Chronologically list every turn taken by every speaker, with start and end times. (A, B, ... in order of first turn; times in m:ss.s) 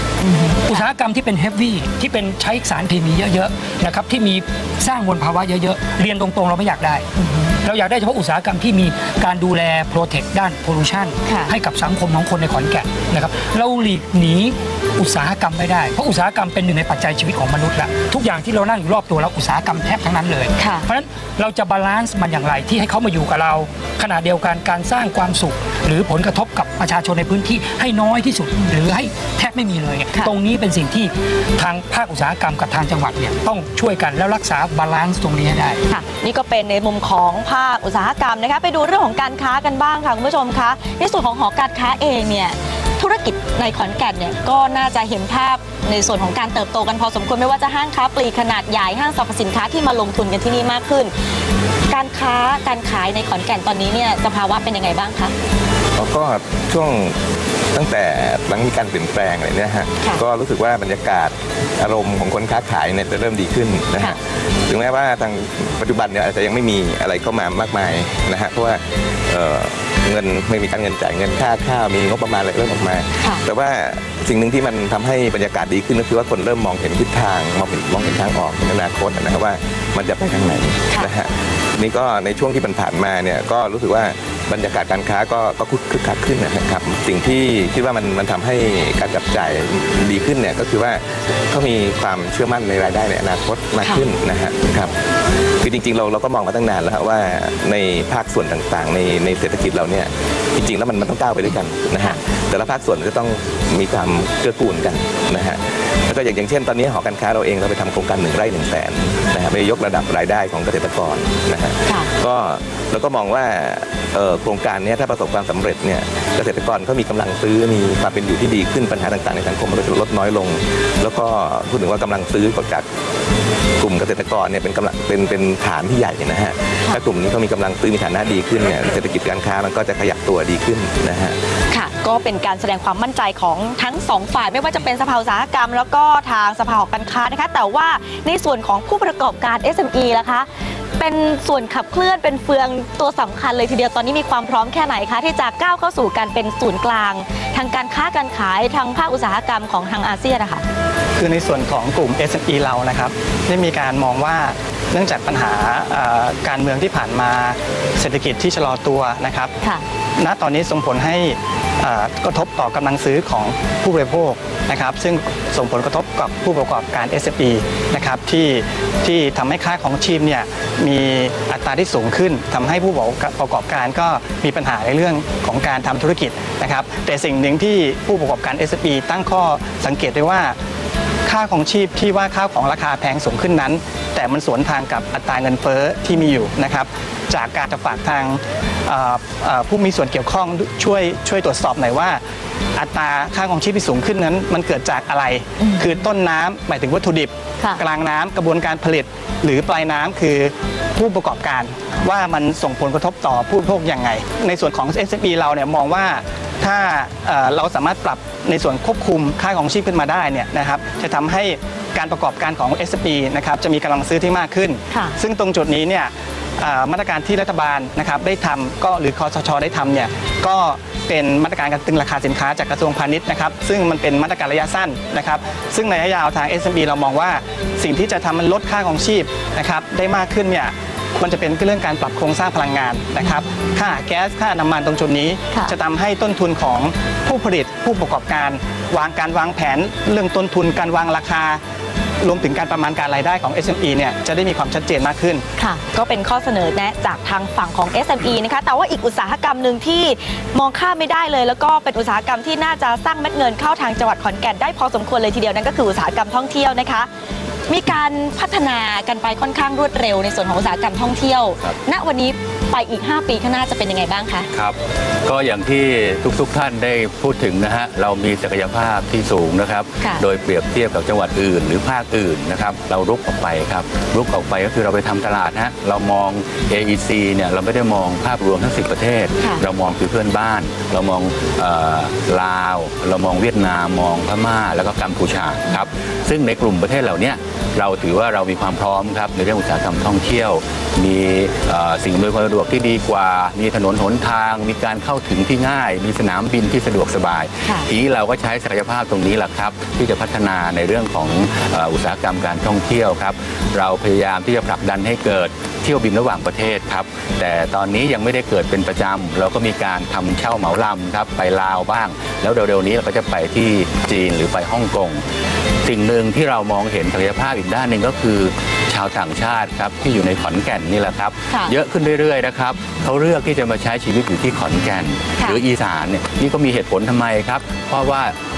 0:00.2-0:00.9 A
0:00.7-0:07.0 B
0:07.2-0:07.6 A
0:07.6-0:35.8 B
0:11.3-0:11.5 A
0:20.6-0:20.9 A
0:35.9-0:51.1 A
0:51.9-0:55.3 A
0:56.0-1:35.0 C
1:35.6-2:02.9 C
2:03.8-2:11.4 C
2:11.7-2:30.6 A
2:31.2-2:39.5 D
2:40.2-3:00.6 D
3:01.2-3:12.2 D
3:12.8-4:01.6 D
3:15.6-3:16.0 A
4:02.2-4:05.4 D
4:05.6-4:17.1 A
4:17.7-4:24.5 A
4:24.5-5:15.2 E
4:39.4-4:39.6 A
5:15.8-5:28.4 E
5:21.5-5:21.8 A